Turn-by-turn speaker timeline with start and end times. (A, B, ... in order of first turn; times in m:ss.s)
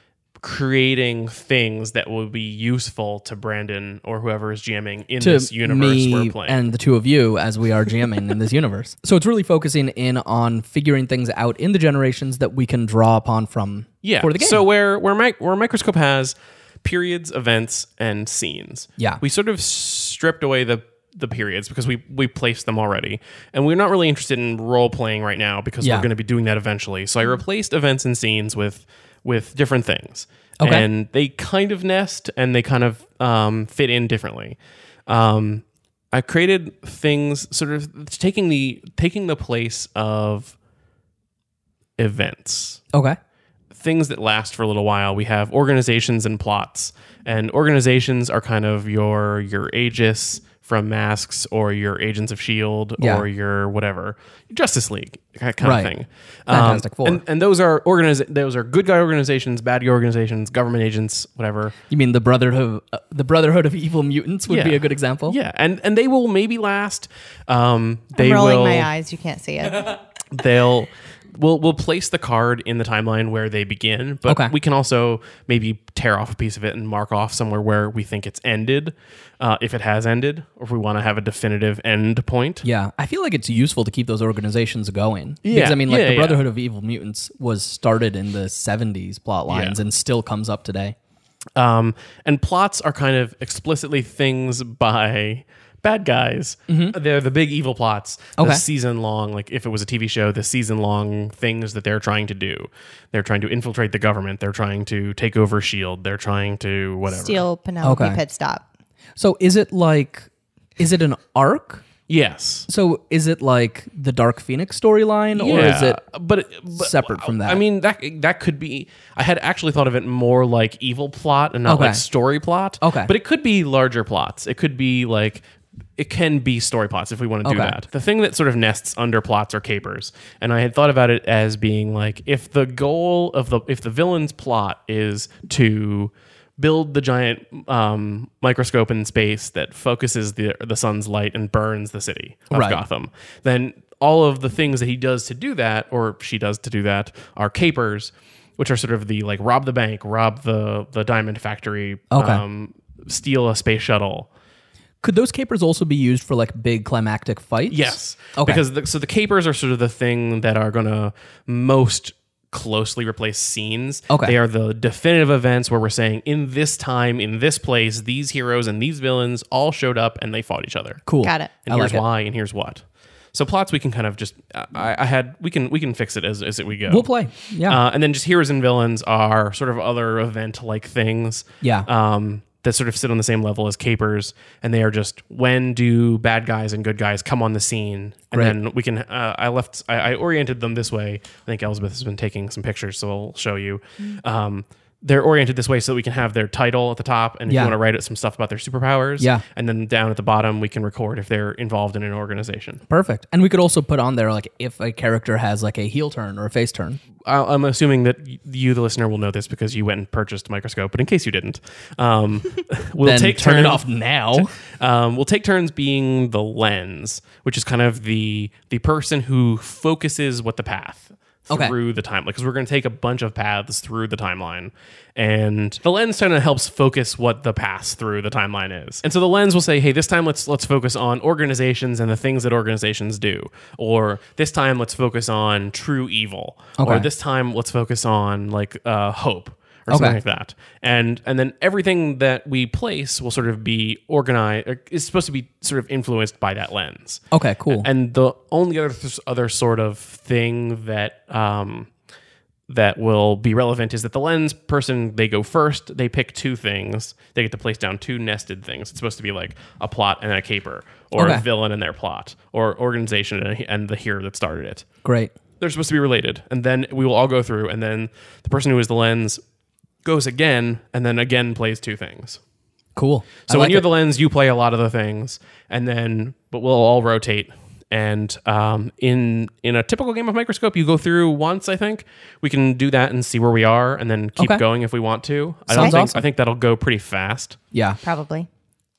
0:00.4-0:06.6 A
0:05.2-0:14.6 B
0:14.0-0:40.6 A
0:25.8-0:26.1 B
0:30.6-0:30.9 B
0:42.0-0:42.8 A
0:42.9-0:43.2 B
0:43.7-1:01.8 A
0:53.0-0:53.2 B
0:55.6-0:55.9 B
0:56.5-0:57.2 B
1:01.9-1:05.4 B
1:04.5-1:08.9 A
1:08.1-1:10.0 C
1:10.3-1:22.6 A
1:14.2-1:14.5 B
1:22.6-1:31.0 B
1:25.4-1:26.4 A
1:29.5-1:29.8 A
1:31.6-1:47.4 A
1:36.7-1:37.0 B
1:38.4-1:38.6 B
1:47.1-1:48.6 C
1:47.8-1:48.2 B
1:49.2-1:51.8 B
1:52.1-1:52.7 A
1:52.7-1:56.0 B
1:55.4-2:05.4 A
1:56.7-1:57.6 B
2:01.6-2:02.0 B
2:02.8-2:03.1 B
2:06.0-2:34.3 A
2:07.4-2:07.8 B
2:22.5-2:22.8 B
2:32.1-2:32.4 B
2:35.0-2:38.6 B
2:37.7-2:51.0 A
2:44.1-2:44.4 B
2:51.0-2:52.0 B
2:51.2-2:51.5 C
2:51.6-2:57.1 A
2:56.9-2:57.8 B
2:57.6-3:22.8 A
3:01.6-3:01.9 B
3:17.5-3:17.8 B
3:22.9-3:27.0 B
3:27.2-4:11.9 A
3:33.0-3:34.5 B
3:41.5-3:41.8 B
3:56.8-3:57.1 B
3:59.9-4:00.2 B
4:07.3-4:07.9 B
4:12.7-4:24.8 A
4:21.2-4:21.4 B
4:25.0-4:25.3 B
4:25.6-4:29.4 A
4:30.0-4:32.4 A
4:33.0-4:33.8 B
4:33.5-4:47.6 A
4:44.4-4:44.6 B
4:45.7-4:46.2 B
4:45.8-4:46.0 C
4:47.7-4:48.0 B
4:48.0-4:48.5 C